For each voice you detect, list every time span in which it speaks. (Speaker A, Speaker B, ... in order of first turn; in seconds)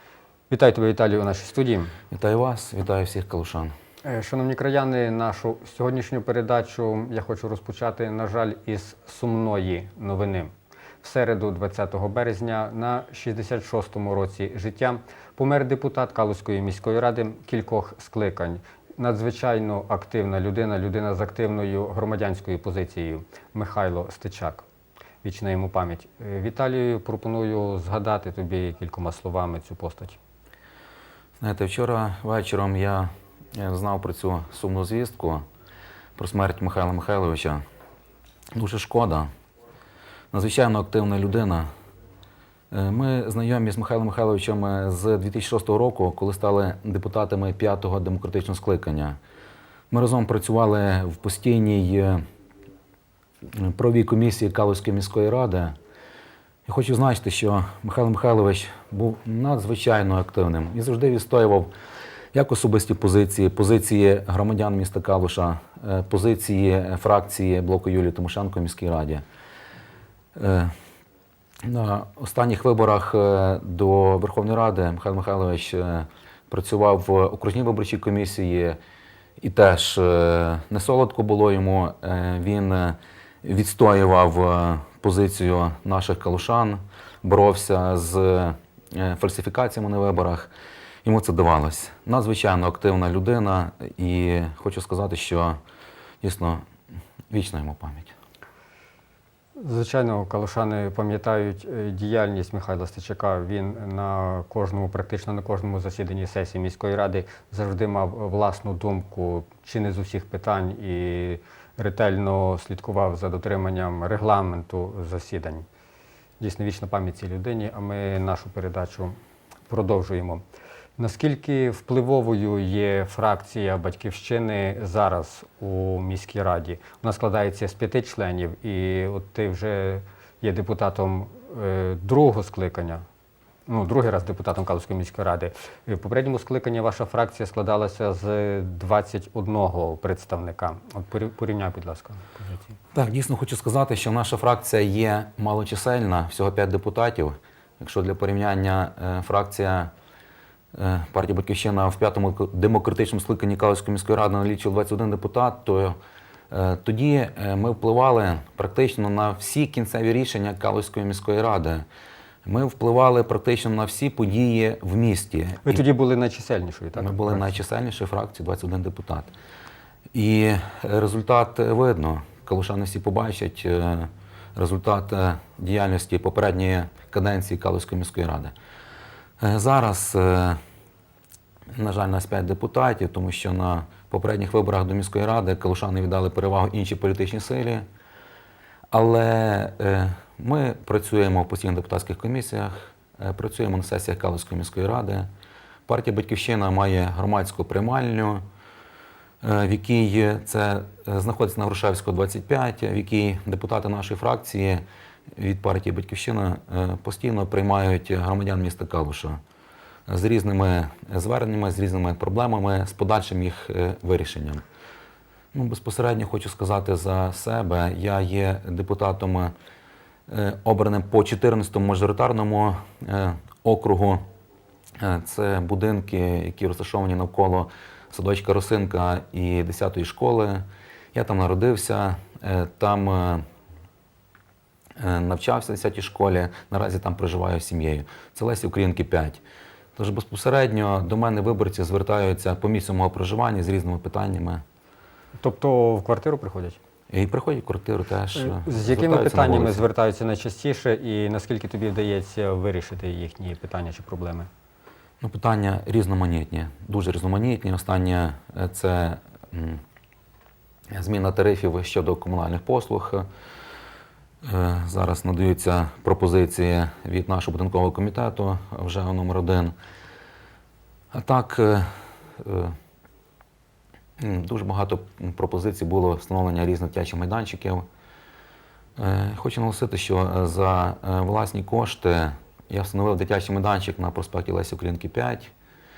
Speaker A: 0.5-1.9, 4.0-24.6, 25.2-30.2, 99.6-115.7, 116.4-119.2, 119.7-120.4, 121.0-133.0, 133.7-142.8, 165.7-167.6, 245.4-246.8, 248.3-254.5
Speaker B: 2.1-3.7, 31.4-35.4, 36.2-37.6, 38.5-39.3, 40.3-41.7, 42.7-49.2, 49.9-52.2, 53.5-55.8, 56.7-61.7, 62.3-69.2, 70.3-70.7, 71.6-78.8, 79.4-90.5, 91.0-95.6, 96.2-96.6, 97.3-98.2, 142.9-149.9, 150.7-156.0, 156.5-161.9, 162.4-165.8, 167.0-169.3, 170.1-178.5, 179.4-180.6, 181.8-187.8, 188.9-195.3, 195.9-198.4, 199.4-204.8, 205.3-209.4, 210.1-214.6, 215.5-219.5, 220.3-224.2, 225.0-233.4, 235.0-239.4, 240.0-244.6, 247.1-249.8, 255.2-259.8, 260.9-263.3, 264.4-269.7, 271.1-272.8, 274.2-277.9, 279.0-285.5